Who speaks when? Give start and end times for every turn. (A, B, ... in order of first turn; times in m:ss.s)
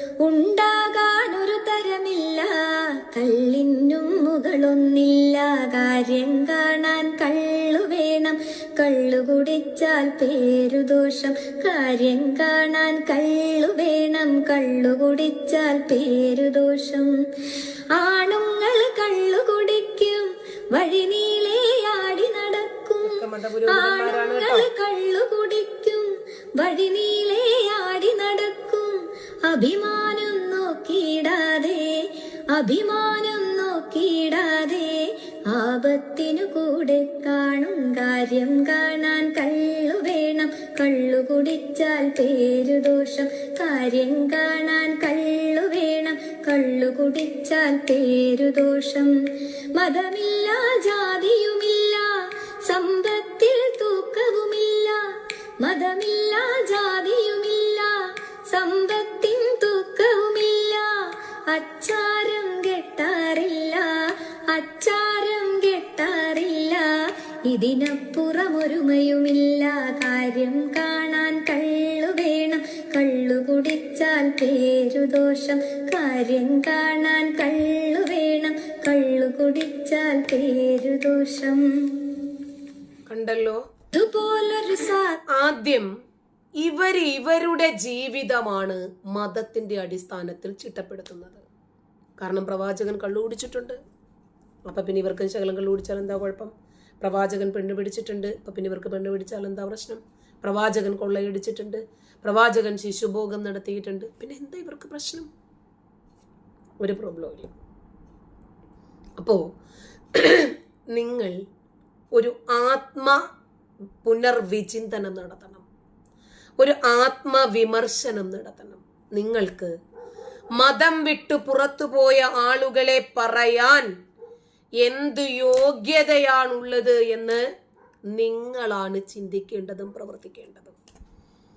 0:00.2-0:17.1 A
0:17.9-0:23.2 A
0:23.0-0:24.7 B
0:23.7-0:26.1 A
0:26.6-0:31.9 A
0:32.5-0:49.1 A
0:49.8-0:55.0 A
0:55.6-1:06.9 A
1:07.5-1:22.2 A
1:23.1-1:23.6 B
1:23.9-1:25.2 A
1:25.3-1:25.9 B
1:26.6-1:31.4 B
1:32.2-1:33.8 B
1:34.7-1:45.3 B
1:46.8-1:47.5 B
1:50.1-1:51.4 B
1:52.1-1:53.2 B
1:54.0-1:55.6 B
1:56.6-1:59.7 B
2:00.6-2:03.9 B
2:04.8-2:07.4 B
2:08.2-2:10.7 B